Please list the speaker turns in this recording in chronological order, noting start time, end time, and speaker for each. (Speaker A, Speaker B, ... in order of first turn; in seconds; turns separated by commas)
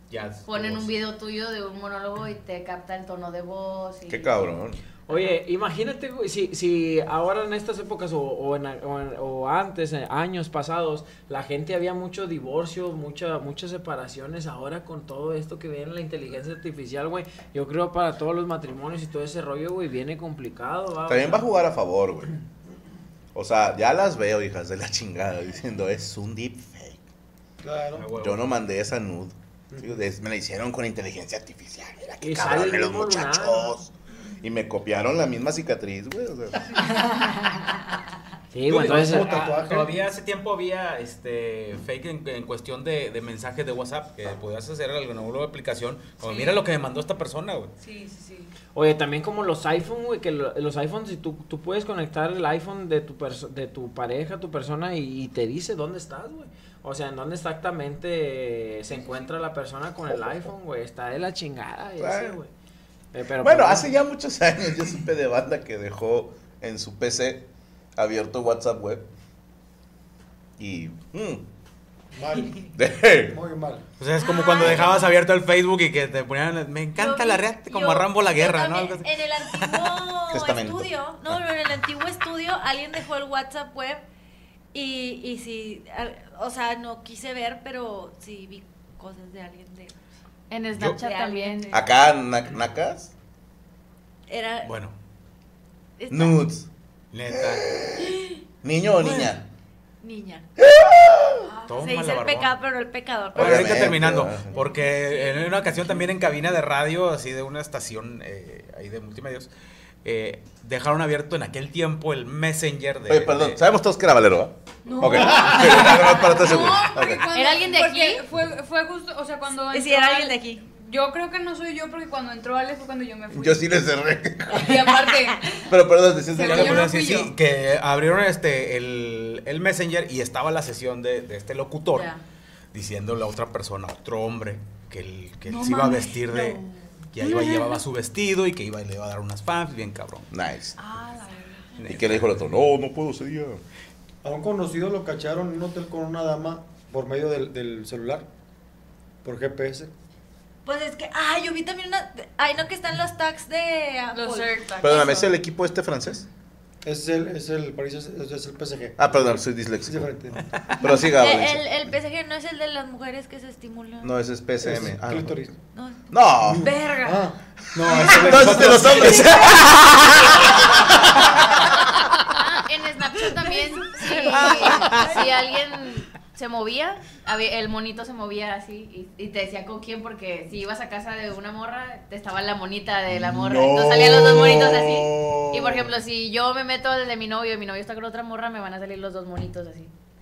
Speaker A: 0.1-1.0, Speaker B: 0.5-4.6, Speaker C: 4.1-4.8, Speaker D: 5.1-21.5, Speaker C: 21.1-22.3, Speaker C: 23.4-27.0, Speaker E: 27.6-28.1, Speaker A: 27.9-28.4, Speaker C: 28.2-36.6, Speaker E: 29.7-30.0, Speaker D: 32.2-33.8, Speaker D: 38.5-39.3, Speaker A: 38.6-47.7, Speaker E: 38.7-40.0, Speaker F: 46.2-46.6, Speaker F: 47.8-48.5, Speaker D: 48.7-62.5, Speaker C: 60.1-60.5, Speaker C: 62.0-62.4, Speaker D: 63.1-63.9, Speaker C: 63.4-69.1, Speaker C: 70.6-71.5, Speaker E: 72.2-72.7, Speaker C: 72.7-73.4, Speaker E: 73.3-73.8, Speaker A: 74.0-80.1, Speaker G: 74.2-75.0, Speaker G: 77.0-84.0, Speaker C: 80.3-80.9, Speaker G: 84.7-90.1, Speaker B: 90.5-91.8, Speaker A: 90.7-91.0, Speaker G: 91.0-91.8, Speaker C: 91.7-93.1, Speaker G: 94.3-94.7, Speaker A: 94.6-95.0, Speaker G: 96.0-96.5, Speaker C: 96.1-96.7, Speaker A: 97.1-97.7, Speaker C: 97.4-99.5, Speaker G: 99.0-99.4, Speaker G: 100.0-100.5, Speaker C: 100.6-101.5, Speaker F: 101.5-101.9, Speaker A: 101.7-102.5, Speaker G: 101.8-106.1, Speaker A: 103.3-109.5, Speaker C: 103.3-104.6, Speaker A: 110.0-113.6, Speaker C: 113.1-117.4, Speaker B: 114.9-116.4, Speaker F: 115.0-123.7, Speaker B: 117.3-118.2, Speaker G: 119.7-120.6, Speaker C: 123.3-125.0, Speaker F: 124.5-125.6, Speaker G: 124.9-125.3, Speaker C: 125.7-127.0, Speaker F: 126.4-127.3, Speaker A: 126.4-132.1, Speaker B: 131.9-132.2, Speaker A: 132.7-136.6, Speaker G: 135.5-136.6, Speaker A: 137.1-140.3, Speaker G: 137.3-137.7, Speaker C: 140.3-140.8, Speaker F: 140.8-141.8, Speaker A: 141.8-142.5, Speaker C: 141.8-143.6, Speaker E: 144.2-148.3, Speaker E: 149.2-149.9, Speaker G: 150.7-154.6, Speaker F: 154.1-155.3, Speaker C: 154.8-156.3, Speaker E: 156.8-159.3, Speaker C: 159.0-160.1, Speaker E: 159.9-160.4, Speaker C: 160.8-161.7, Speaker G: 160.9-164.2, Speaker C: 164.0-165.5, Speaker E: 164.6-165.5, Speaker G: 165.7-166.1, Speaker C: 166.1-166.7, Speaker E: 166.4-169.3, Speaker F: 166.6-167.2, Speaker C: 167.8-171.6, Speaker A: 168.3-169.2, Speaker G: 169.2-170.2, Speaker B: 172.3-189.9, Speaker G: 173.5-175.3, Speaker A: 174.3-175.2, Speaker C: 183.1-186.0